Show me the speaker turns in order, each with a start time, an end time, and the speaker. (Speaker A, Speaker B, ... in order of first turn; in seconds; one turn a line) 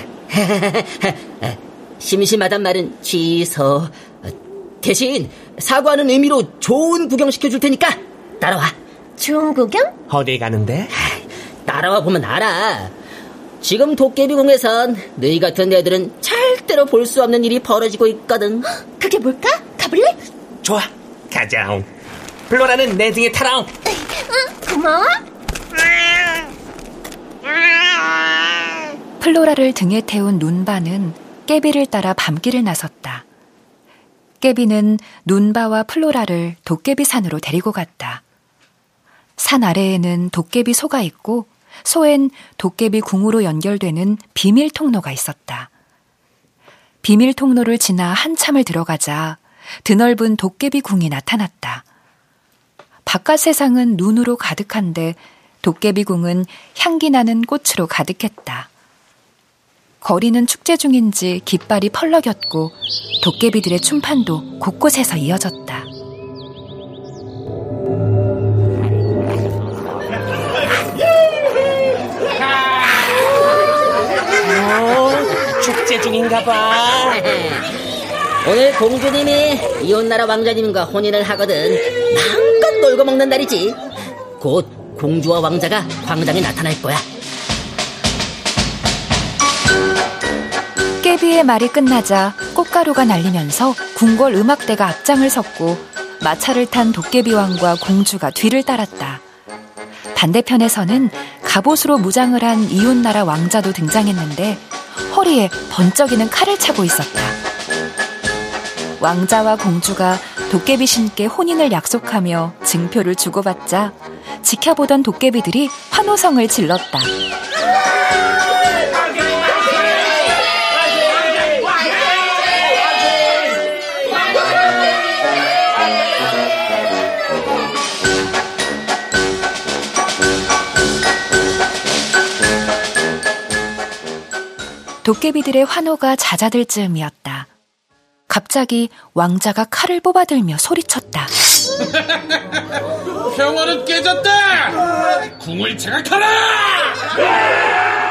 Speaker A: 0.3-8.7
Speaker B: 9.2-9.9
Speaker C: 10.1-10.9
Speaker A: 11.7-12.9
Speaker A: 13.6-18.6
Speaker B: 19.0-20.2
Speaker C: 20.6-21.9
Speaker C: 22.5-23.7
Speaker B: 23.9-25.2
Speaker D: 29.2-33.2
Speaker D: 34.4-38.2
Speaker D: 39.4-45.7
Speaker D: 47.0-51.8
Speaker D: 53.1-58.7
Speaker D: 60.0-65.9
Speaker C: 74.4-77.3
Speaker A: 78.4-83.8
Speaker A: 84.4-87.0
Speaker D: 91.0-99.2
Speaker D: 100.2-107.4
Speaker D: 109.0-117.1
Speaker D: 135.0-137.5
Speaker D: 138.3-141.3
Speaker E: 143.2-144.8
Speaker E: 145.4-147.1